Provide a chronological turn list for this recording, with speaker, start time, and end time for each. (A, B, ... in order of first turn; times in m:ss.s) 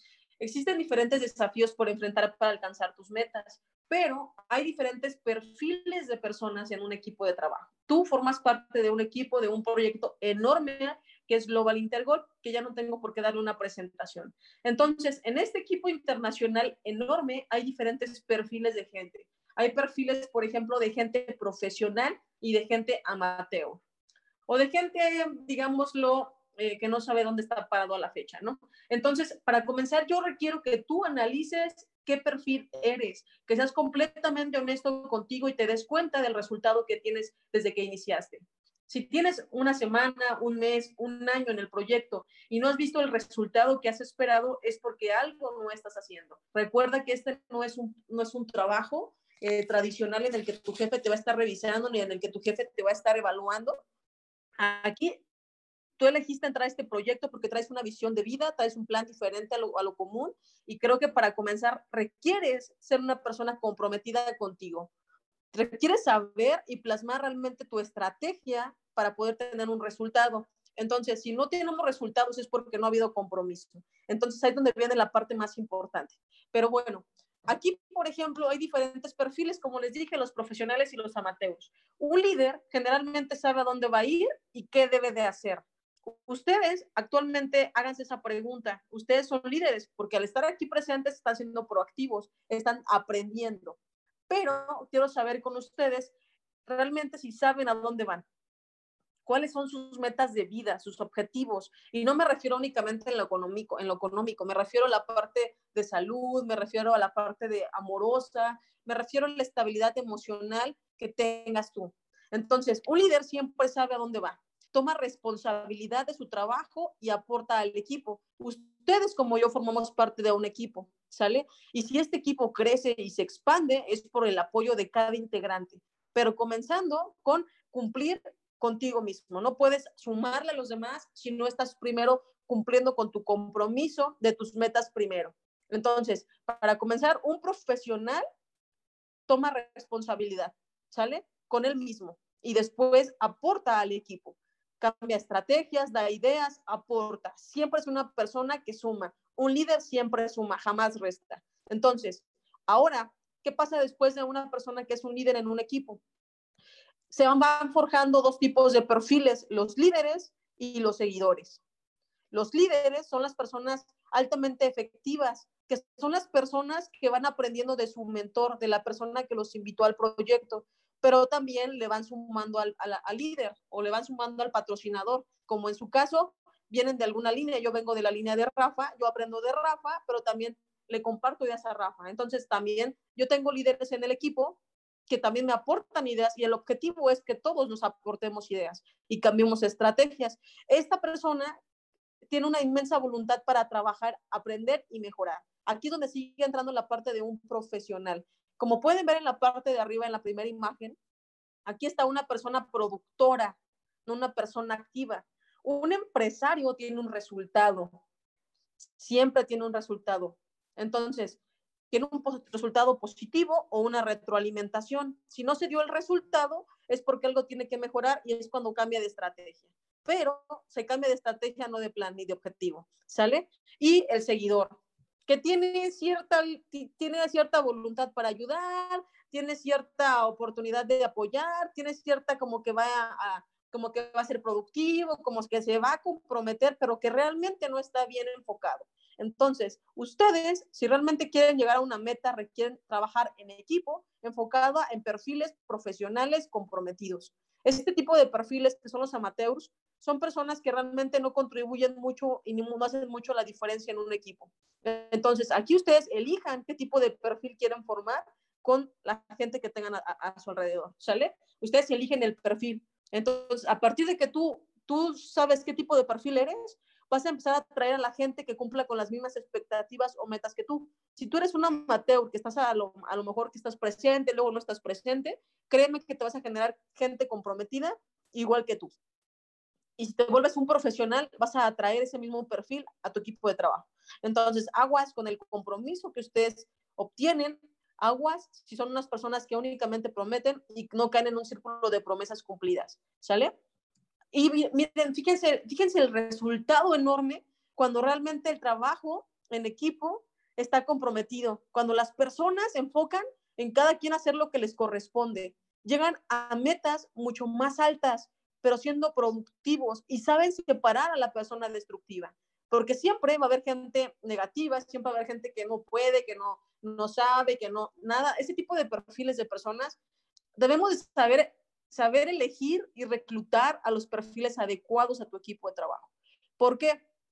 0:00.4-0:23.8 A
0:24.5-0:53.8 A
0:54.6-0:55.2 A
0:56.0-1:04.9 A
1:05.5-1:33.8 A
1:34.3-1:36.1 A
1:36.6-1:38.2 A
1:39.2-2:18.2 A
2:19.3-2:36.0 A
2:37.1-2:41.6 A
2:42.3-3:11.5 A
3:12.3-3:21.0 A
3:21.6-3:28.0 A
3:29.0-3:31.4 A
3:31.9-4:38.9 A
4:40.0-4:53.5 A
4:54.3-5:20.0 A
5:20.6-5:27.0 A